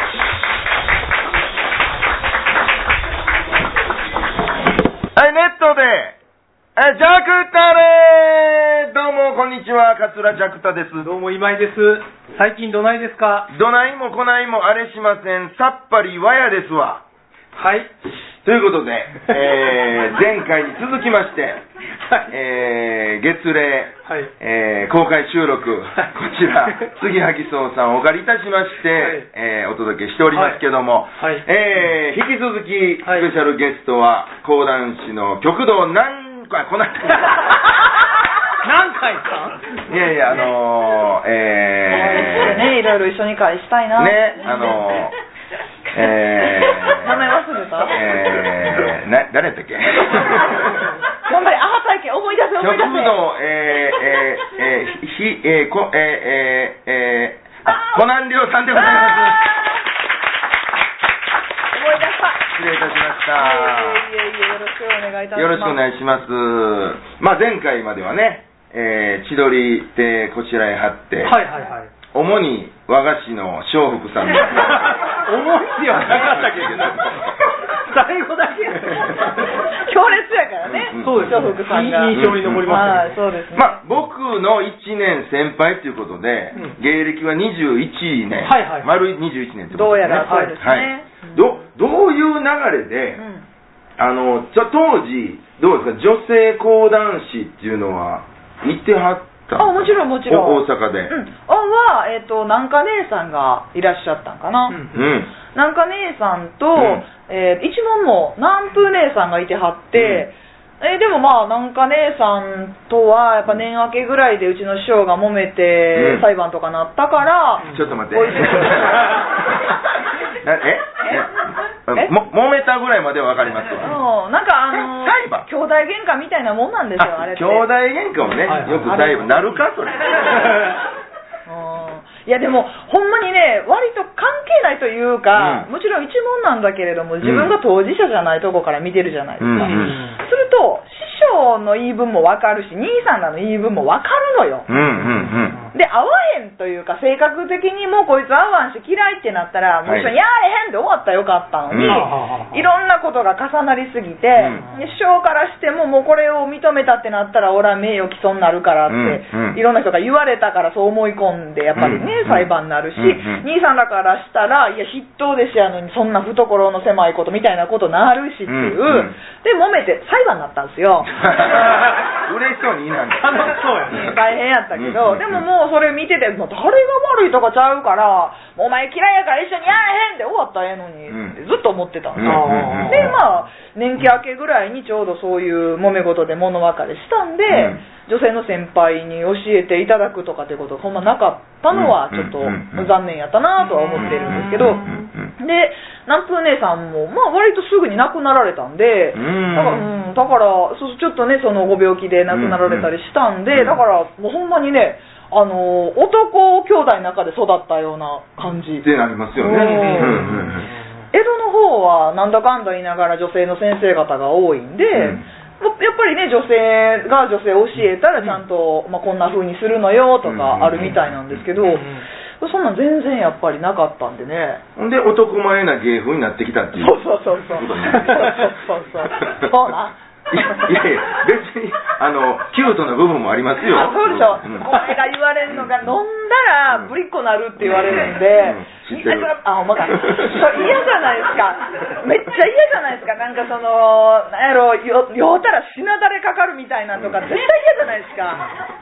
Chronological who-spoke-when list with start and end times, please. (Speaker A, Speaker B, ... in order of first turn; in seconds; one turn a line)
Speaker A: 5.1-6.2
Speaker A: 6.8-11.1
Speaker B: 11.0-13.5
Speaker A: 13.5-17.0
Speaker B: 17.5-17.9
Speaker A: 18.4-21.6
Speaker A: 22.3-37.6
Speaker B: 29.0-29.3
Speaker B: 30.3-30.6
Speaker B: 31.2-31.4
Speaker B: 33.0-33.3
Speaker B: 38.6-39.7
Speaker A: 39.9-42.8
Speaker C: 41.9-45.0
Speaker A: 44.0-45.1
Speaker A: 45.9-50.9
Speaker C: 46.4-48.0
Speaker C: 51.2-53.2
Speaker A: 52.6-59.6
Speaker C: 57.6-58.0
Speaker C: 58.8-59.2
Speaker C: 61.8-62.5
Speaker A: 62.4-64.1
Speaker C: 63.3-65.8
Speaker A: 65.3-71.4
Speaker B: 71.2-71.9
Speaker A: 72.1-75.1
Speaker B: 74.5-79.7
Speaker A: 75.8-77.4
Speaker C: 79.4-83.8
Speaker A: 80.7-81.5
Speaker B: 81.0-83.2
Speaker A: 82.1-82.9
Speaker A: 83.5-93.2
Speaker B: 88.4-88.9
Speaker C: 89.7-91.5
Speaker B: 90.2-90.5
Speaker C: 93.2-93.5
Speaker A: 94.0-101.1
Speaker C: 99.6-104.8
Speaker B: 104.7-105.1
Speaker A: 104.9-105.3
Speaker C: 105.5-119.2
Speaker A: 106.8-107.0
Speaker A: 110.0-110.3
Speaker A: 115.9-116.2
Speaker B: 117.6-117.9
Speaker A: 117.7-124.0
Speaker C: 123.8-127.7
Speaker A: 124.7-125.5
Speaker A: 127.0-130.6
Speaker C: 128.3-129.6
Speaker B: 128.4-129.2
Speaker C: 131.5-144.7
Speaker A: 135.4-135.7
Speaker A: 137.2-137.5
Speaker A: 139.4-140.0
Speaker B: 139.6-140.2
Speaker A: 144.7-145.6
Speaker B: 144.7-145.7
Speaker C: 145.7-171.6
Speaker A: 149.8-150.1
Speaker A: 151.7-152.0
Speaker B: 151.9-152.6
Speaker A: 154.4-154.6
Speaker A: 158.9-159.6
Speaker A: 161.8-163.4
Speaker A: 168.5-169.2
Speaker A: 171.1-174.1
Speaker B: 173.2-174.1
Speaker C: 173.9-208.9
Speaker A: 174.8-175.4
Speaker A: 181.1-181.4
Speaker A: 182.2-183.2
Speaker B: 182.2-183.2
Speaker A: 187.5-187.8
Speaker A: 191.7-192.9
Speaker B: 193.8-195.0
Speaker A: 194.0-195.3
Speaker A: 199.1-199.9
Speaker A: 202.3-202.9
Speaker A: 203.5-203.8
Speaker A: 208.8-210.7
Speaker C: 209.4-210.3
Speaker B: 209.5-211.1
Speaker C: 211.1-224.6
Speaker A: 214.9-215.2
Speaker A: 220.2-221.4
Speaker B: 221.7-222.0
Speaker A: 224.8-228.6
Speaker C: 226.8-230.7
Speaker A: 229.2-229.7
Speaker A: 230.3-234.7
Speaker C: 233.7-248.5
Speaker A: 235.5-235.9
Speaker A: 237.6-239.3
Speaker A: 239.9-240.7
Speaker A: 247.0-247.2